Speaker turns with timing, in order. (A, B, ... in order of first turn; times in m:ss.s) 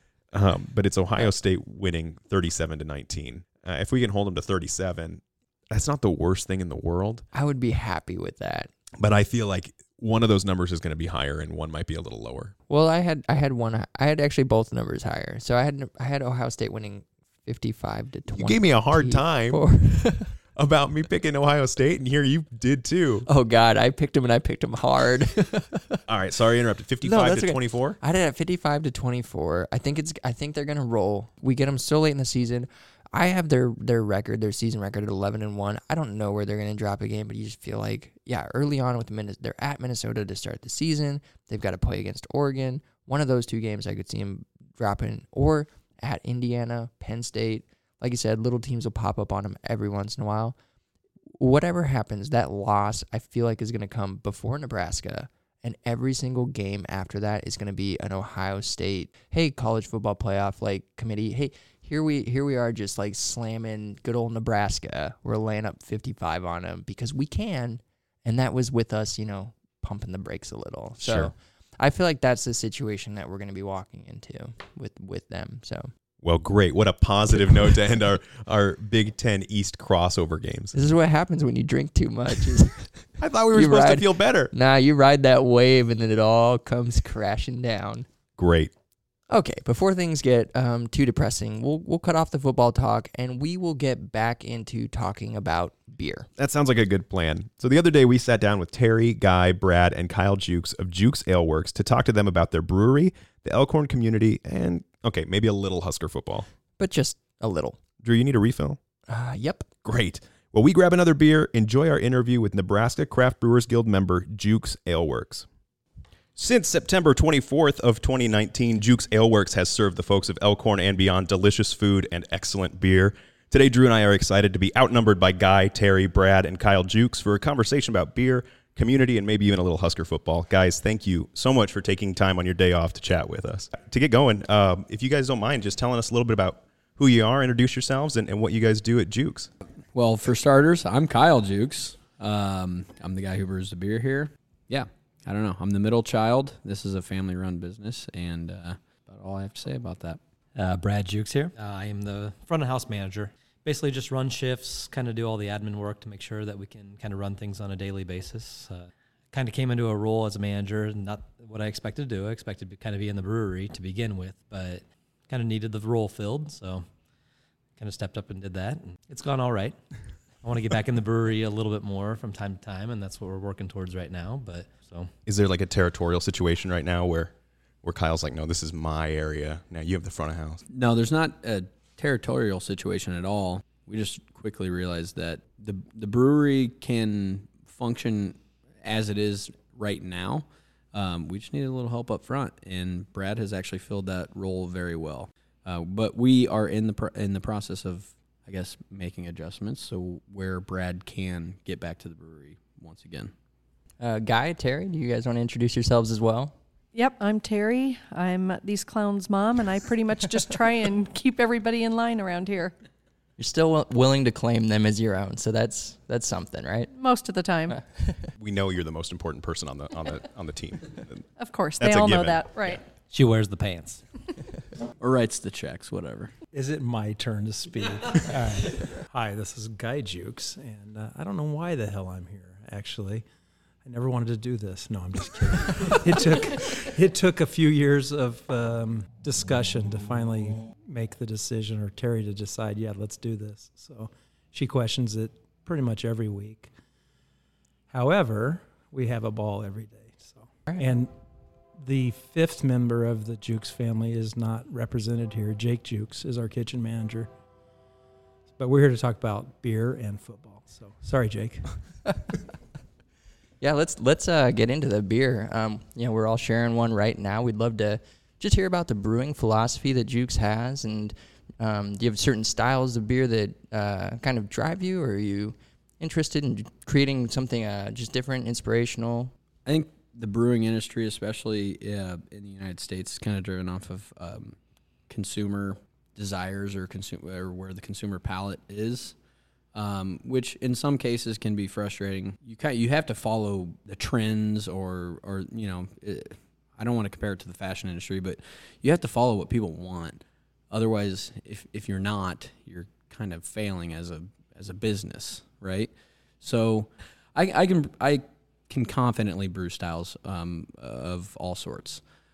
0:00.3-0:07.2 A
0:07.3-0:08.7 B
0:09.0-0:12.5 A
0:12.7-0:20.3 B
0:18.3-0:20.0 A
0:20.5-0:23.3 A
0:23.2-0:26.0 B
0:26.1-0:28.0 A
0:27.0-0:50.6 B
0:51.4-1:15.9 B
1:11.0-1:11.3 A
1:16.2-1:20.8 A
1:20.7-1:28.1 B
1:23.2-1:24.5 A
1:28.4-1:28.7 A
1:29.3-1:36.3 B
1:36.4-1:46.5 A
1:46.8-1:47.8 B
1:48.0-1:48.8 A
1:49.1-1:49.7 B
1:49.8-1:55.5 A
1:56.4-2:19.5 A
2:19.9-2:30.2 C
2:30.6-2:46.8 D
2:47.8-2:49.8 D
2:50.4-2:55.1 D
2:55.3-3:00.6 A
3:00.7-3:23.3 C
3:24.0-3:26.5 B
3:26.9-3:32.7 E
3:33.4-3:36.9 B
3:36.9-3:37.8 E
3:37.7-3:38.2 B
3:38.4-3:42.7 A
3:41.4-3:42.8 E
3:42.9-3:44.0 D
3:45.0-3:46.3 C
3:46.5-3:53.2 F
3:53.8-4:06.7 F
4:07.9-4:11.1 F
4:11.8-4:17.3 F
4:18.6-4:21.8 F
4:23.6-4:39.3 B
4:39.6-4:44.6 C
4:45.1-4:49.1 C
4:49.7-5:12.0 C